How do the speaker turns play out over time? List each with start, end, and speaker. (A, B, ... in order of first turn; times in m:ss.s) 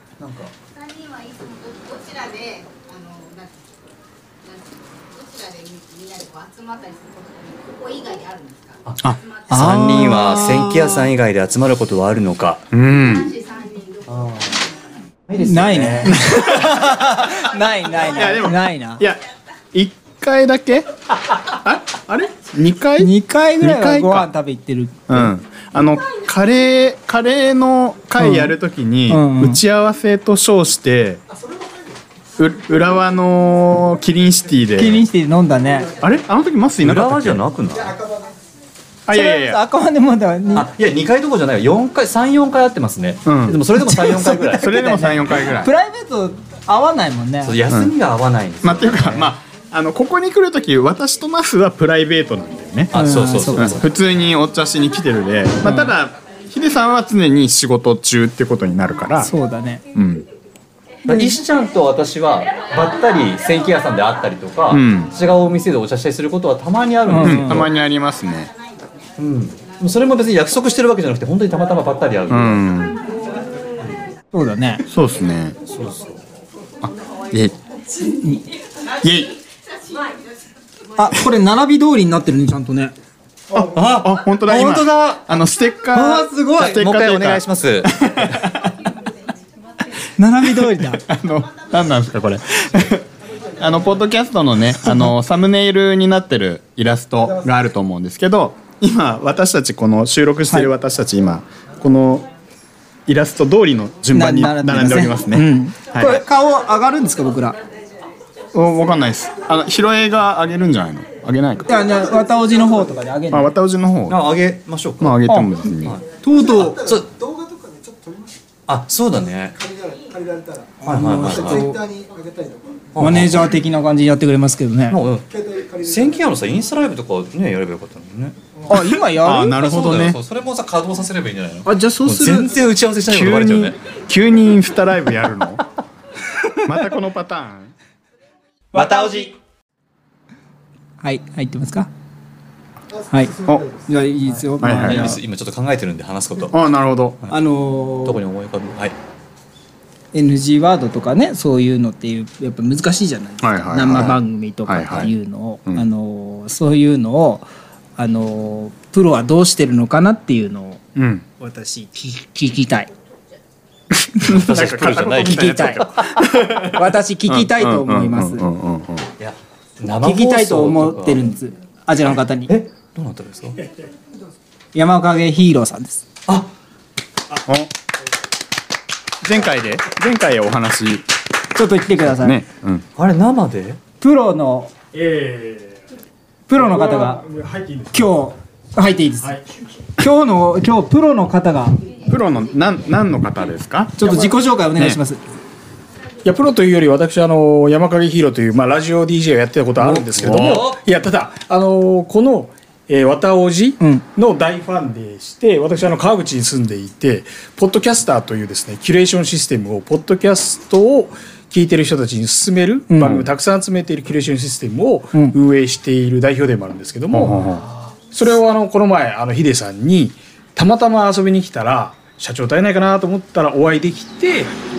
0:00.2-0:00.5 A
0:00.7-0:03.8 B
0:04.4-0:09.7 B
0:08.8-0:12.6 A
0:09.5-0:10.9 C
0:12.7-0:13.3 D
0:13.0-0:14.1 B
0:14.1-0:14.7 A
0:15.3-0:16.2 A
0:15.4-0:19.0 C
0:16.1-0:16.8 D
0:18.0-0:19.2 D
0:19.7-0:24.3 D
0:23.0-0:25.3 C
0:25.1-0:31.2 D
0:28.2-0:28.6 C
0:29.1-0:29.6 C
0:32.4-0:35.0 D
0:34.8-0:35.9 C
0:36.0-0:37.4 D
0:36.8-0:38.0 A
0:39.1-0:39.6 D
0:39.1-0:40.7 C
0:40.5-0:44.8 A
0:43.2-0:43.6 D
0:43.8-0:47.6 C
0:44.5-0:45.7 D
0:47.4-0:49.3 A
0:47.7-0:47.9 D
0:48.6-0:52.9 D
0:52.9-0:53.9 A
0:52.9-0:53.8 C
0:53.6-0:59.3 D
0:55.6-0:55.9 C
0:59.2-0:59.8 C
0:59.9-1:00.3 D
1:01.1-1:07.7 A
1:01.1-1:01.3 C
1:04.7-1:05.1 D
1:07.1-1:07.7 C
1:07.2-1:08.5 D
1:09.2-1:12.6 A
1:12.3-1:13.0 D
1:14.3-1:14.8 C
1:14.9-1:15.6 D
1:15.7-1:16.2 A
1:16.8-1:17.6 D
1:19.0-1:19.4 D
1:21.0-1:22.9 C
1:23.5-1:28.7 D
1:23.6-1:25.3 A
1:25.9-1:26.8 C
1:26.6-1:28.1 A
1:30.2-1:31.0 C
1:30.4-1:42.3 D
1:34.8-1:35.1 C
1:43.1-1:46.2 D
1:44.1-1:47.6 C
1:48.5-1:51.7 D
1:51.7-1:53.5 C
1:53.3-1:54.2 D
1:54.1-1:55.2 A
1:55.0-1:56.0 D
1:55.3-1:55.7 C
1:56.2-1:56.8 C
1:56.7-1:57.1 A
1:58.7-1:59.7 A
2:00.8-2:01.9 C
2:00.9-2:01.7 A
2:02.9-2:03.6 A
2:03.0-2:05.0 C
2:04.9-2:08.4 A
2:08.7-2:09.6 C
2:08.8-2:10.2 D
2:09.6-2:13.8 A
2:11.6-2:12.6 C
2:13.1-2:15.6 D
2:16.6-2:17.7 D
2:18.7-2:19.3 C
2:18.8-2:19.3 A
2:21.0-2:21.9 C
2:23.1-2:25.2 C
2:23.4-2:23.7 D
2:24.3-2:26.6 A
2:24.6-2:25.1 D
2:26.5-2:27.2 D
2:27.3-2:28.2 C
2:28.0-2:29.0 A
2:30.1-2:40.8 C
2:33.4-2:35.1 D
2:41.0-2:41.2 D
2:41.4-2:42.9 C
2:43.9-2:49.1 D
2:44.2-2:46.6 A
2:45.2-2:45.8 C
2:46.7-2:48.5 C
2:49.2-2:51.3 A
2:50.0-2:52.5 C
2:52.5-2:53.6 A
2:54.7-2:56.0 C
2:57.5-2:57.7 D
2:59.2-3:01.1 D
3:01.5-3:02.4 C
3:02.0-3:02.8 D
3:03.0-3:03.8 A
3:04.0-3:04.7 C
3:04.9-3:05.9 E
3:06.5-3:07.2 C
3:06.5-3:08.2 E
3:07.9-3:09.4 C
3:09.2-3:09.8 E
3:10.0-3:11.8 C
3:12.1-3:15.0 D
3:14.0-3:15.2 C
3:14.0-3:14.3 E
3:16.2-3:37.5 E
3:19.9-3:20.8 A
3:32.9-3:33.2 C
3:33.0-3:33.3 D
3:37.1-3:37.7 D
3:38.1-3:44.5 E